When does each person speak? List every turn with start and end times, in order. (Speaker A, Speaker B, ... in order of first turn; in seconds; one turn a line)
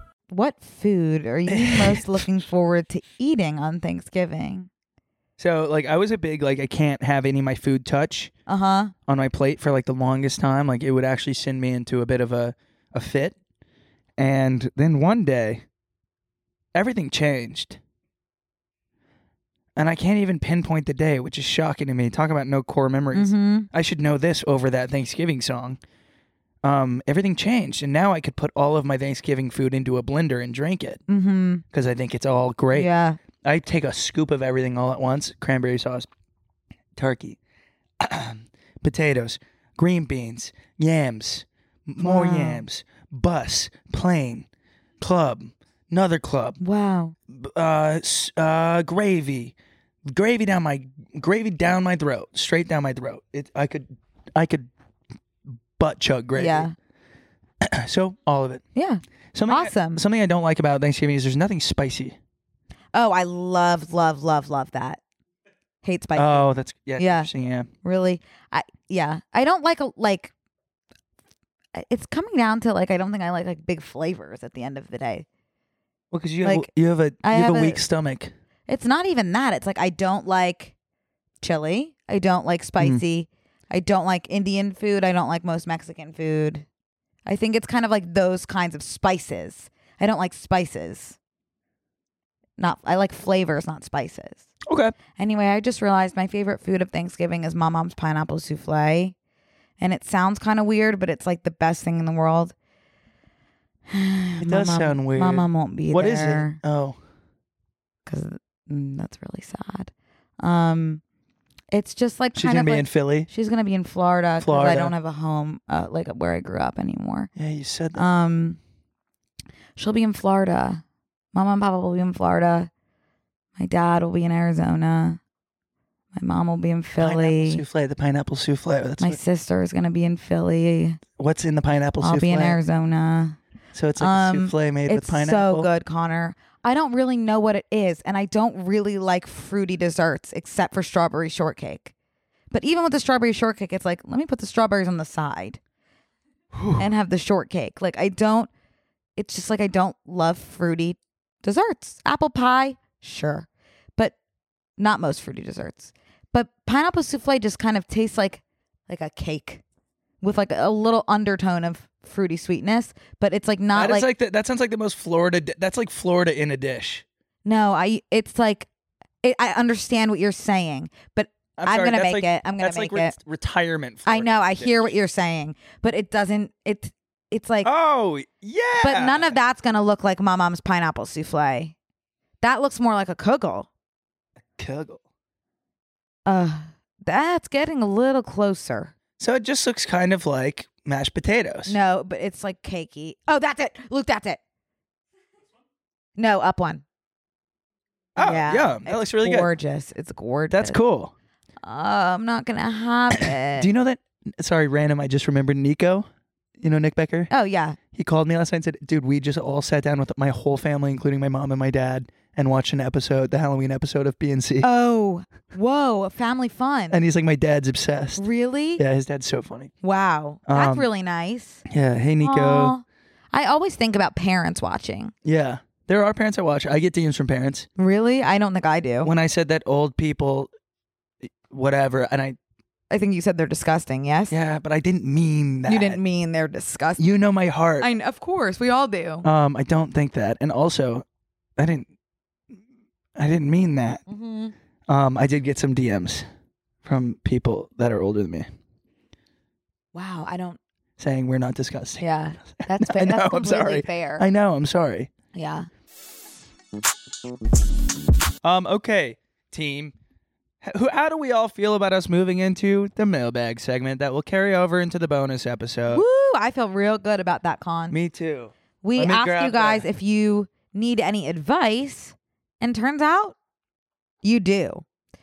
Speaker A: 0.3-4.7
Speaker B: 1.5-2.2
Speaker B: 5.4-8.3
Speaker A: 8.5-8.9
Speaker B: 9.1-13.3
Speaker B: 14.2-15.6
Speaker B: 16.7-17.8
Speaker B: 19.8-25.8
Speaker A: 23.1-23.7
Speaker B: 26.6-31.0
Speaker A: 31.1-31.6
Speaker B: 31.7-36.1
Speaker A: 32.7-33.2
Speaker B: 37.0-37.4
Speaker B: 38.0-44.5
Speaker A: 42.0-42.6
Speaker B: 45.0-46.6
Speaker A: 46.6-47.1
Speaker B: 47.3-49.5
Speaker B: 50.0-54.7
Speaker B: 55.8-56.7
Speaker A: 56.4-56.7
Speaker B: 57.6-58.6
Speaker A: 58.7-60.0
Speaker B: 59.3-62.2
Speaker A: 62.9-65.0
Speaker A: 65.8-67.3
Speaker B: 66.2-67.7
Speaker A: 67.8-70.3
Speaker A: 71.8-75.2
Speaker B: 76.1-78.3
Speaker A: 76.4-76.7
Speaker A: 77.2-77.8
Speaker A: 78.7-80.7
Speaker A: 81.4-86.6
Speaker A: 87.2-91.2
Speaker A: 92.6-94.5
Speaker B: 94.7-94.9
Speaker A: 95.2-99.1
Speaker A: 99.8-102.5
Speaker A: 103.9-106.6
Speaker B: 104.4-107.0
Speaker A: 108.0-111.0
Speaker A: 111.7-117.3
Speaker B: 112.3-113.3
Speaker B: 114.4-114.9
Speaker B: 117.3-118.1
Speaker A: 117.9-118.6
Speaker A: 119.8-120.8
Speaker A: 121.3-122.7
Speaker A: 123.6-125.2
Speaker A: 126.1-127.6
Speaker B: 127.0-129.2
Speaker A: 129.0-131.0
Speaker B: 131.2-132.6
Speaker A: 132.0-133.4
Speaker B: 133.7-135.7
Speaker A: 134.0-141.9
Speaker A: 142.5-145.6
Speaker B: 146.5-146.8
Speaker A: 146.8-148.5
Speaker A: 149.2-154.1
Speaker A: 154.8-159.6
Speaker A: 160.2-164.1
Speaker B: 163.7-167.0
Speaker A: 167.4-168.7
Speaker A: 169.2-173.2
Speaker B: 171.6-174.9
Speaker A: 174.1-177.7
Speaker B: 177.6-179.4
Speaker A: 178.8-181.7
Speaker A: 182.4-183.7
Speaker B: 184.6-185.0
Speaker A: 186.2-188.9
Speaker B: 189.2-191.8
Speaker A: 191.7-194.4
Speaker A: 196.2-196.8
Speaker B: 198.2-199.5
Speaker A: 198.2-200.8
Speaker B: 200.5-201.1
Speaker A: 201.6-203.7
Speaker B: 203.2-206.1
Speaker B: 206.6-207.3
Speaker A: 207.3-207.8
Speaker B: 207.9-214.7
Speaker A: 214.6-217.0
Speaker B: 216.9-219.7
Speaker A: 218.2-218.8
Speaker A: 219.8-221.6
Speaker B: 220.5-220.9
Speaker B: 221.7-222.7
Speaker A: 222.2-225.1
Speaker B: 225.2-227.7
Speaker A: 227.8-229.1
Speaker B: 229.0-230.5
Speaker B: 231.2-232.4
Speaker A: 232.9-234.3
Speaker B: 234.3-236.0
Speaker A: 235.7-237.0
Speaker B: 237.0-237.9
Speaker A: 237.8-239.2
Speaker B: 239.2-241.0
Speaker B: 241.6-241.9
Speaker B: 243.2-244.0
Speaker A: 244.1-244.5
Speaker B: 244.9-246.2
Speaker B: 246.8-248.5
Speaker A: 249.9-250.6
Speaker B: 251.0-255.1
Speaker A: 252.0-254.2
Speaker A: 255.3-255.7
Speaker B: 258.4-259.9
Speaker B: 260.6-266.0
Speaker A: 265.9-268.0
Speaker B: 267.9-269.9
Speaker A: 268.8-273.4
Speaker A: 274.2-274.8